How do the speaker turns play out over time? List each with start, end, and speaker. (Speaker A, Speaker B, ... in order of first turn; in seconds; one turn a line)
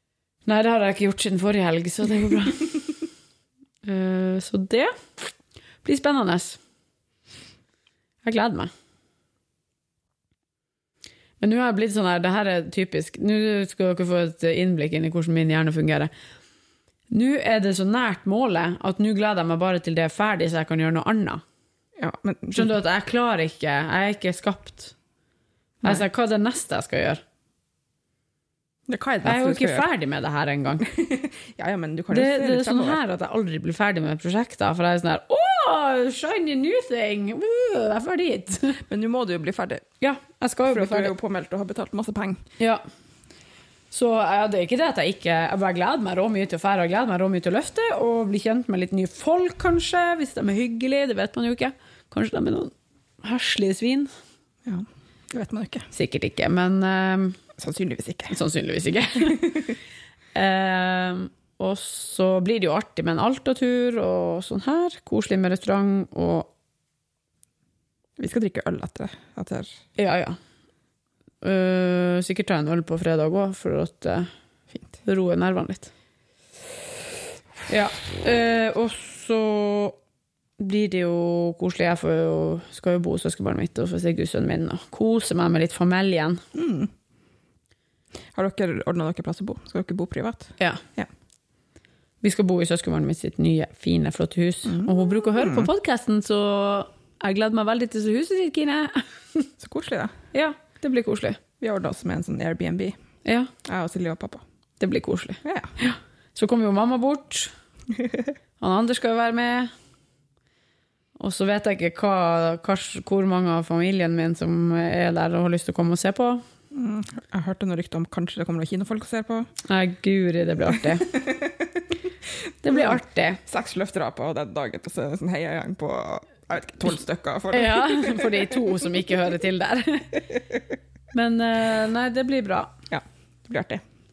Speaker A: 0.5-2.9
Speaker A: 3.8-4.9
Speaker A: 5.8-6.6
Speaker A: 8.2-8.7
Speaker A: 11.4-16.1
Speaker A: 17.1-21.4
Speaker B: 22.0-22.7
Speaker A: 22.5-24.9
Speaker A: 25.8-27.2
Speaker B: 28.9-29.9
Speaker A: 29.2-30.8
Speaker B: 30.8-33.0
Speaker A: 32.1-38.8
Speaker B: 38.8-39.8
Speaker A: 40.0-41.1
Speaker B: 40.7-42.4
Speaker A: 43.9-54.1
Speaker B: 54.6-55.9
Speaker A: 55.9-57.4
Speaker B: 57.6-58.4
Speaker A: 58.3-59.7
Speaker A: 60.3-66.5
Speaker B: 68.2-69.7
Speaker A: 70.0-70.4
Speaker A: 71.4-74.3
Speaker A: 75.0-75.9
Speaker A: 77.7-80.0
Speaker A: 80.6-86.4
Speaker B: 86.5-86.9
Speaker B: 88.3-91.1
Speaker A: 92.2-99.5
Speaker B: 94.7-95.7
Speaker B: 99.6-100.1
Speaker A: 100.3-101.4
Speaker B: 101.6-103.0
Speaker A: 103.2-103.5
Speaker B: 103.6-104.4
Speaker A: 104.8-107.5
Speaker B: 105.4-105.7
Speaker A: 108.6-109.7
Speaker A: 111.2-116.4
Speaker B: 116.7-119.5
Speaker A: 119.6-121.2
Speaker B: 120.7-121.9
Speaker A: 122.6-123.4
Speaker B: 122.7-128.7
Speaker A: 127.5-130.3
Speaker A: 131.1-132.7
Speaker B: 132.9-133.8